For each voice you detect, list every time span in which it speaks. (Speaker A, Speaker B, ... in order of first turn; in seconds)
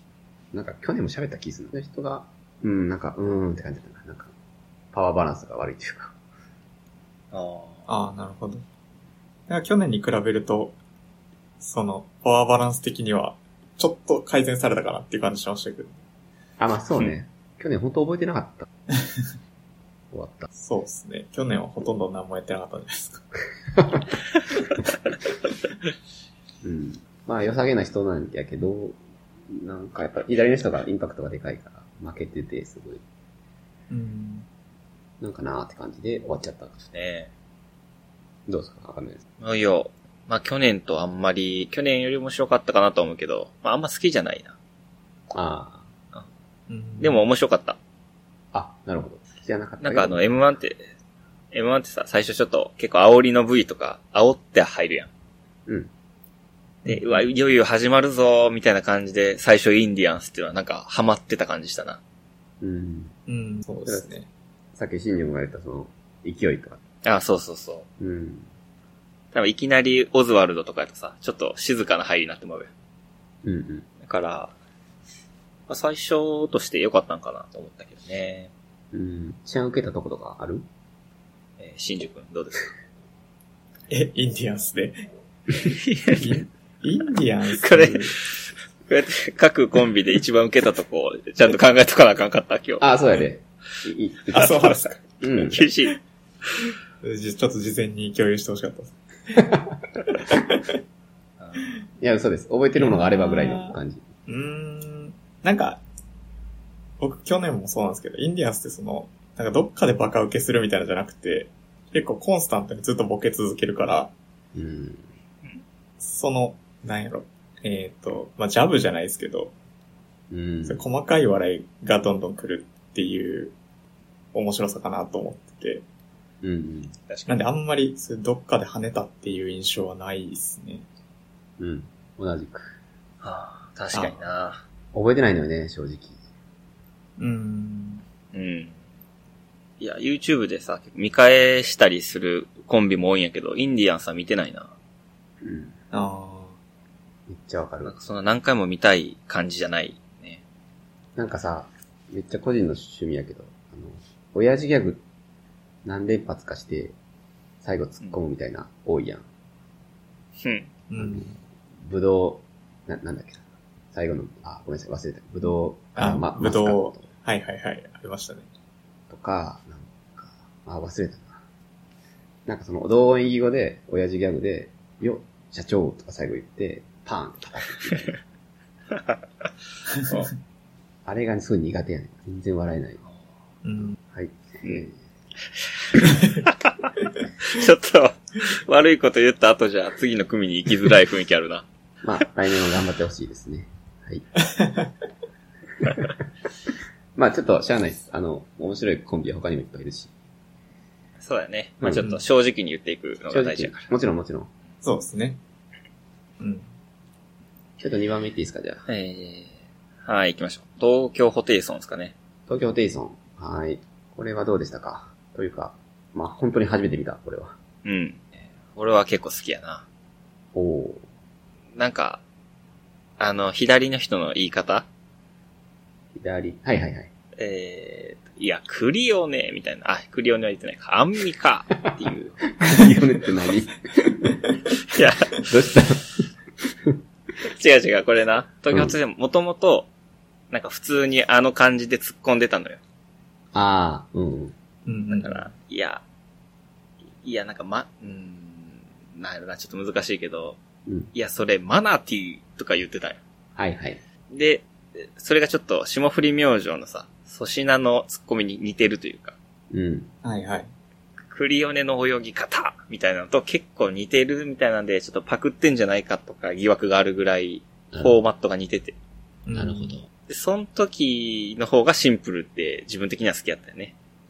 Speaker A: 0.5-4.3, 4.9-6.1, 16.6-18.7, 20.1-20.5, 23.8-24.0, 26.6-33.0, 35.2-36.8, 38.5-39.2, 45.3-45.9, 48.5-50.2, 62.6-63.1, 64.7-66.8, 68.0-68.5, 73.4-73.9, 78.9-80.7, 92.8-95.6, 99.4-99.6, 102.0-104.0, 114.5-115.1, 120.3-120.8, 126.4-126.9, 131.6-132.8, 134.9-136.2, 145.4-145.8, 147.3-147.9, 151.2-155.0, 155.8-156.9, 157.6-159.2, 160.9-167.0, 169.1-171.4, 172.4-178.2, 181.1-183.0, 184.0-185.0, 192.0-194.3, 197.2-200.1, 201.8-202.2, 203.3-204.5, 207.8-208.8, 212.5-217.6, 220.5-221.0, 226.1-227.1, 232.6-234.5, 235.4-236.2, 243.5-244.6, 253.6-254.0, 259.7-260.1, 267.9-268.2, 269.5-270.1
Speaker B: 7.3-7.9, 36.9-37.3, 39.4-44.5, 47.0-47.8, 49.8-50.9, 51.5-55.1, 56.8-62.0, 67.0-67.8, 69.3-72.7, 74.0-74.5, 75.7-78.5, 81.6-82.7, 85.6-86.4, 87.6-92.9, 94.3-94.8, 95.4-96.0, 101.4-101.7, 127.1-127.3, 133.2-134.6, 138.3-138.7, 139.8-144.7, 147.8-150.4, 160.4-160.7, 178.9-179.2, 185.6-191.7, 201.2-203.9, 208.9-212.1, 217.8-219.8, 221.8-222.2, 223.2-224.8, 227.4-232.4, 234.9-235.4, 237.4-239.9, 240.5-242.8, 245.1-246.0, 247.2-250.6, 251.1-253.2, 254.3-259.4, 261.3-268.9, 270.3-273.9
Speaker C: 7.9-8.6, 9.5-10.7, 11.6-16.0, 19.0-19.2, 20.5-23.2, 33.9-34.5, 46.7-47.2, 56.8-57.2, 63.3-64.3, 83.9-85.0, 86.2-88.1, 94.3-95.0, 97.0-99.4, 100.3-100.6, 102.8-105.8, 107.0-114.1, 116.0-119.5, 120.7-123.5, 124.3-125.8, 127.3-130.8, 133.9-134.2, 137.2-138.0, 145.9-146.6, 160.9-161.3, 165.9-168.5, 183.6-184.0, 194.5-194.9, 204.8-205.4, 206.4-206.7, 244.8-245.5, 260.2-260.7, 269.4-270.0